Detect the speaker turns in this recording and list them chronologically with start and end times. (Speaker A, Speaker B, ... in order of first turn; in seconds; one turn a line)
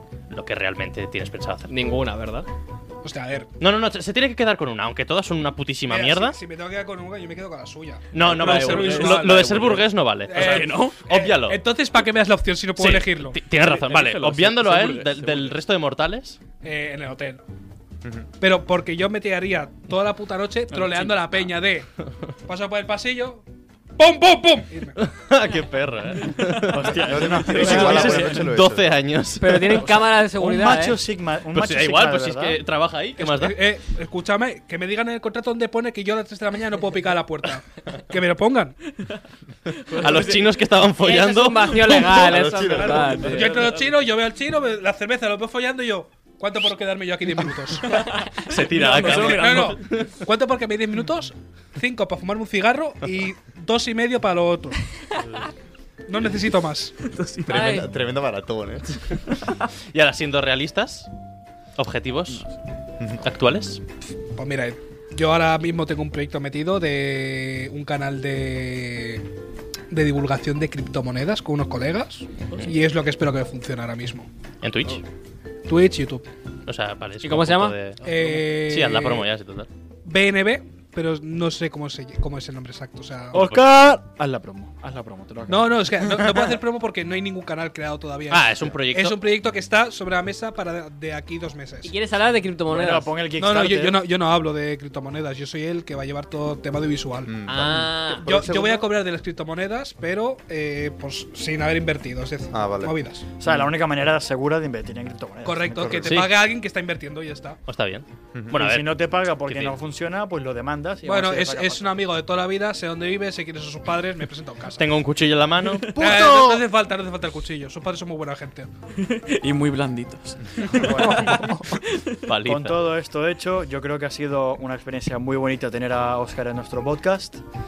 Speaker A: 0.3-1.7
Speaker B: 1.7-2.5
Speaker C: 3.0-3.5
Speaker A: 3.6-6.4
Speaker C: 5.9-9.6
Speaker A: 8.1-11.6
Speaker D: 8.2-11.0
Speaker C: 10.3-13.4
Speaker A: 12.8-16.4
Speaker D: 13.6-15.6
Speaker C: 16.6-17.4
Speaker C: 18.4-21.9
Speaker D: 20.7-21.6
Speaker C: 22.4-23.4
Speaker C: 24.0-25.0
Speaker A: 25.0-29.8
Speaker D: 26.7-28.4
Speaker E: 26.9-28.9
Speaker F: 27.2-28.4
Speaker B: 27.6-27.9
Speaker B: 29.4-31.0
Speaker D: 29.7-30.1
Speaker F: 30.4-32.6
Speaker A: 31.5-33.6
Speaker C: 33.2-38.8
Speaker D: 39.7-40.8
Speaker A: 39.9-42.0
Speaker B: 41.0-43.5
Speaker D: 41.7-44.0
Speaker E: 42.1-43.2
Speaker C: 43.3-48.0
Speaker D: 47.4-50.0
Speaker A: 48.4-50.1
Speaker C: 49.1-54.9
Speaker C: 56.1-56.9
Speaker D: 57.0-57.6
Speaker E: 57.4-58.9
Speaker B: 57.5-57.9
Speaker A: 59.9-61.1
Speaker A: 61.8-62.5
Speaker D: 62.3-62.5
Speaker A: 63.2-63.8
Speaker C: 64.4-69.2
Speaker C: 69.9-74.3
Speaker A: 74.6-75.0
Speaker C: 75.7-76.2
Speaker A: 76.7-79.7
Speaker B: 77.2-77.8
Speaker D: 78.0-78.4
Speaker C: 78.0-79.2
Speaker C: 80.0-83.4
Speaker A: 83.3-83.6
Speaker F: 83.3-86.6
Speaker C: 85.5-91.9
Speaker A: 88.3-89.2
Speaker B: 91.8-93.1
Speaker F: 92.7-94.1
Speaker C: 93.4-97.3
Speaker E: 97.2-98.9
Speaker B: 97.5-98.3
Speaker C: 98.2-103.2
Speaker E: 102.5-102.9
Speaker F: 103.4-106.2
Speaker C: 105.4-107.6
Speaker A: 106.0-106.3
Speaker A: 107.7-109.8
Speaker F: 108.5-112.0
Speaker C: 111.0-114.8
Speaker A: 114.8-116.2
Speaker D: 115.7-116.4
Speaker C: 116.0-118.7
Speaker D: 119.0-122.2
Speaker F: 120.7-121.5
Speaker A: 122.2-122.9
Speaker F: 122.4-127.4